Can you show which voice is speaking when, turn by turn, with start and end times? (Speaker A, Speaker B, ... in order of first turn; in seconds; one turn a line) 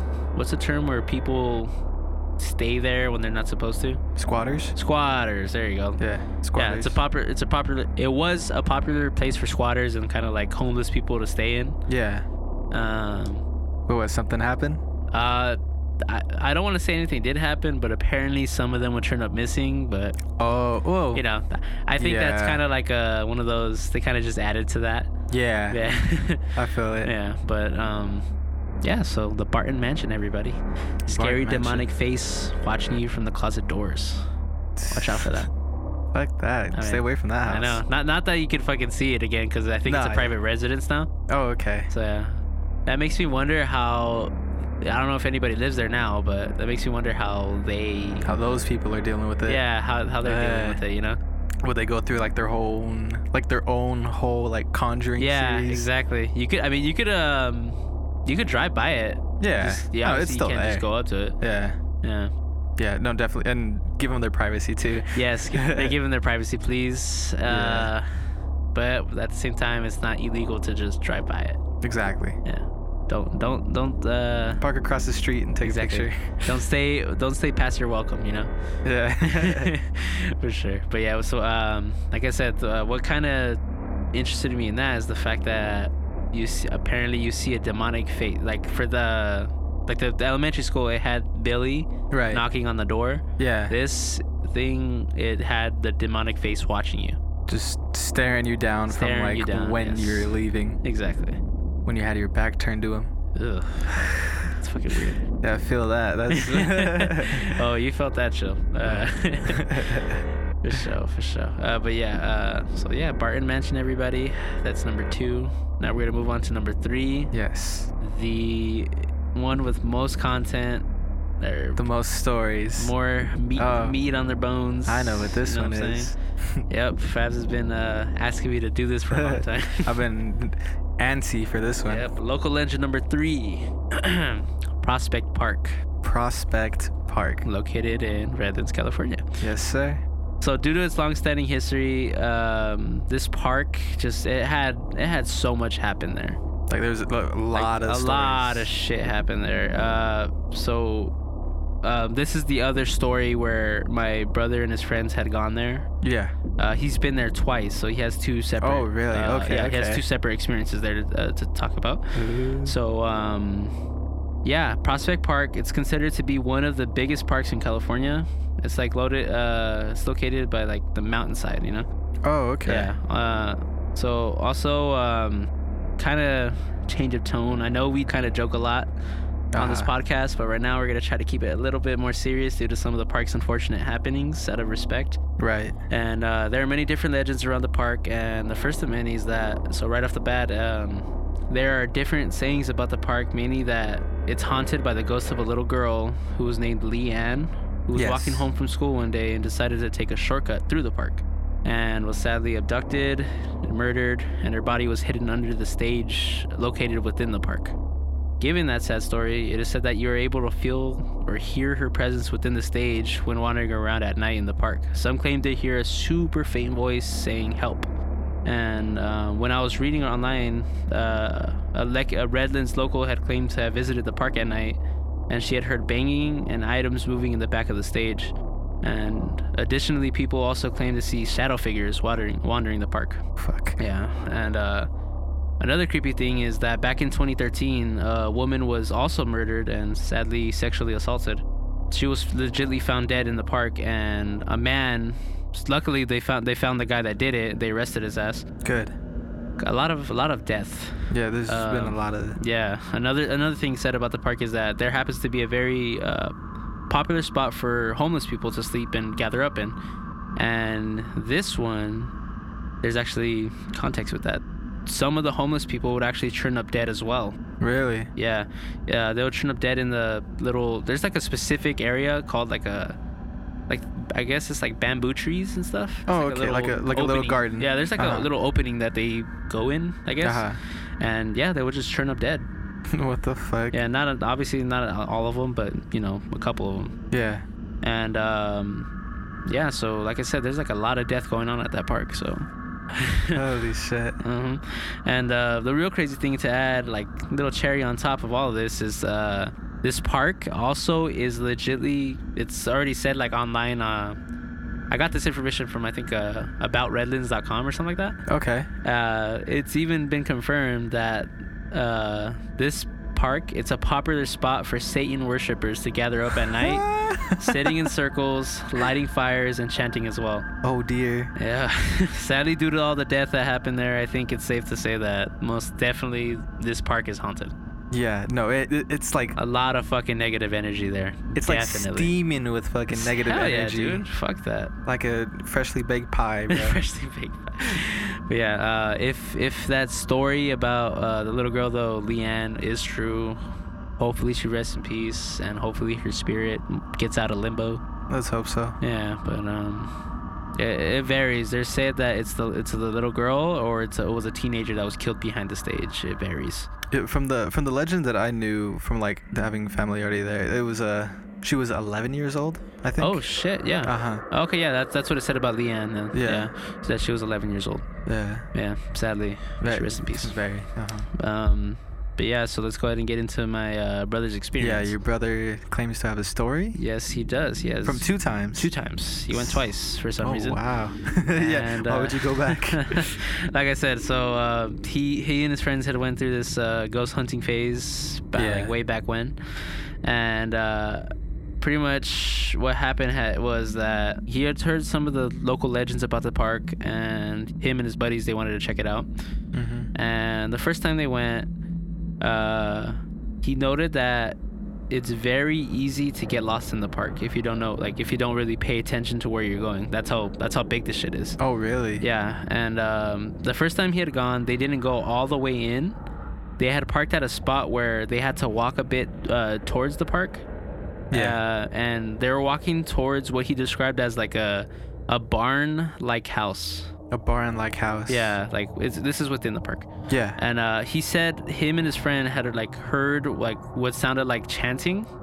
Speaker A: 0.3-1.7
Speaker A: 2.4-4.0
Speaker B: 4.2-4.8
Speaker A: 4.8-6.0
Speaker B: 6.0-7.0
Speaker A: 6.5-11.8
Speaker B: 11.9-12.2
Speaker A: 12.7-13.4
Speaker B: 13.9-14.8
Speaker A: 15.1-20.2
Speaker B: 20.4-21.2
Speaker A: 21.1-25.1
Speaker B: 22.0-22.6
Speaker B: 25.3-25.8
Speaker A: 25.7-28.2
Speaker B: 26.5-27.1
Speaker A: 28.8-34.2
Speaker B: 31.1-31.9
Speaker B: 34.8-35.3
Speaker A: 34.9-35.5
Speaker B: 36.1-37.8
Speaker A: 36.7-41.1
Speaker B: 39.9-40.3
Speaker B: 41.3-41.9
Speaker A: 41.9-48.6
Speaker B: 48.2-49.6
Speaker A: 49.4-51.2
Speaker B: 50.2-50.8
Speaker B: 51.6-55.9
Speaker A: 55.2-61.4
Speaker B: 59.4-60.8
Speaker B: 61.4-61.8
Speaker A: 62.0-62.3
Speaker B: 62.8-66.0
Speaker A: 65.1-68.1
Speaker B: 67.5-67.9
Speaker A: 68.7-71.6
Speaker B: 71.8-72.4
Speaker A: 72.4-74.6
Speaker B: 74.6-76.3
Speaker A: 75.6-78.5
Speaker B: 78.8-79.7
Speaker A: 79.2-83.6
Speaker A: 84.1-97.2
Speaker B: 92.1-92.4
Speaker B: 93.4-93.7
Speaker B: 97.5-100.8
Speaker A: 98.9-101.4
Speaker B: 101.8-103.1
Speaker A: 103.3-105.2
Speaker B: 105.4-107.6
Speaker A: 106.3-110.0
Speaker B: 108.8-110.2
Speaker A: 110.6-117.3
Speaker B: 117.3-117.9
Speaker A: 118.0-120.9
Speaker A: 121.4-121.8
Speaker B: 121.8-122.9
Speaker A: 122.8-126.1
Speaker B: 123.6-124.0
Speaker B: 124.8-126.6
Speaker A: 126.7-129.9
Speaker B: 129.1-132.1
Speaker A: 131.8-135.8
Speaker B: 136.0-137.4
Speaker A: 137.4-139.2
Speaker B: 139.4-140.0
Speaker A: 140.4-146.4
Speaker B: 146.7-148.7
Speaker A: 147.5-151.1
Speaker A: 151.8-155.8
Speaker B: 156.0-156.3
Speaker A: 156.6-163.7
Speaker B: 158.6-160.0
Speaker B: 162.1-162.7
Speaker A: 164.4-171.8
Speaker B: 172.2-172.9
Speaker A: 172.6-178.9
Speaker B: 179.5-179.9
Speaker A: 179.6-185.2
Speaker B: 185.4-185.7
Speaker A: 185.9-207.8
Speaker B: 197.9-198.4
Speaker A: 208.4-217.9
Speaker A: 218.4-233.2
Speaker B: 233.4-233.8
Speaker A: 233.8-234.9
Speaker A: 235.6-248.4
Speaker B: 248.6-248.9
Speaker A: 249.6-256.3
Speaker B: 251.1-252.4
Speaker A: 256.9-259.8
Speaker A: 260.4-262.1
Speaker A: 262.8-267.4
Speaker B: 267.6-268.1
Speaker A: 268.1-273.0
Speaker A: 273.7-280.4
Speaker B: 276.1-278.3
Speaker B: 280.2-280.6
Speaker A: 281.0-282.5
Speaker B: 282.9-283.8
Speaker A: 283.7-286.9
Speaker B: 287.1-287.4
Speaker A: 287.8-288.9
Speaker A: 289.4-293.4
Speaker B: 293.3-294.2
Speaker A: 294.2-304.2
Speaker A: 304.9-308.2
Speaker B: 308.3-308.7
Speaker A: 308.8-320.4
Speaker B: 316.3-317.9
Speaker B: 320.6-321.3
Speaker A: 321.4-327.5
Speaker B: 327.9-329.4
Speaker A: 329.4-332.1
Speaker B: 331.3-334.0
Speaker A: 332.9-334.7
Speaker B: 334.9-336.8
Speaker A: 336.5-343.4
Speaker A: 344.0-347.8
Speaker B: 348.1-348.8
Speaker A: 348.8-349.9
Speaker A: 350.6-356.7
Speaker B: 356.9-363.2
Speaker A: 363.0-367.8
Speaker B: 363.8-364.2
Speaker B: 366.1-366.5
Speaker B: 368.1-368.4
Speaker A: 368.5-370.4
Speaker B: 369.6-371.1
Speaker A: 371.1-374.9
Speaker B: 374.6-376.8
Speaker A: 376.7-380.6
Speaker B: 377.8-378.7
Speaker B: 379.3-379.6
Speaker B: 380.2-383.1
Speaker A: 381.3-389.3
Speaker B: 388.4-388.7
Speaker A: 390.0-391.0
Speaker A: 391.6-399.1
Speaker B: 399.5-399.9
Speaker A: 399.9-401.5
Speaker A: 402.2-404.4
Speaker A: 404.9-411.4
Speaker B: 411.4-412.0
Speaker A: 412.0-416.0
Speaker A: 416.6-420.4
Speaker B: 421.1-421.4
Speaker A: 421.1-426.9
Speaker B: 427.1-428.4
Speaker A: 428.1-435.1
Speaker B: 430.1-430.4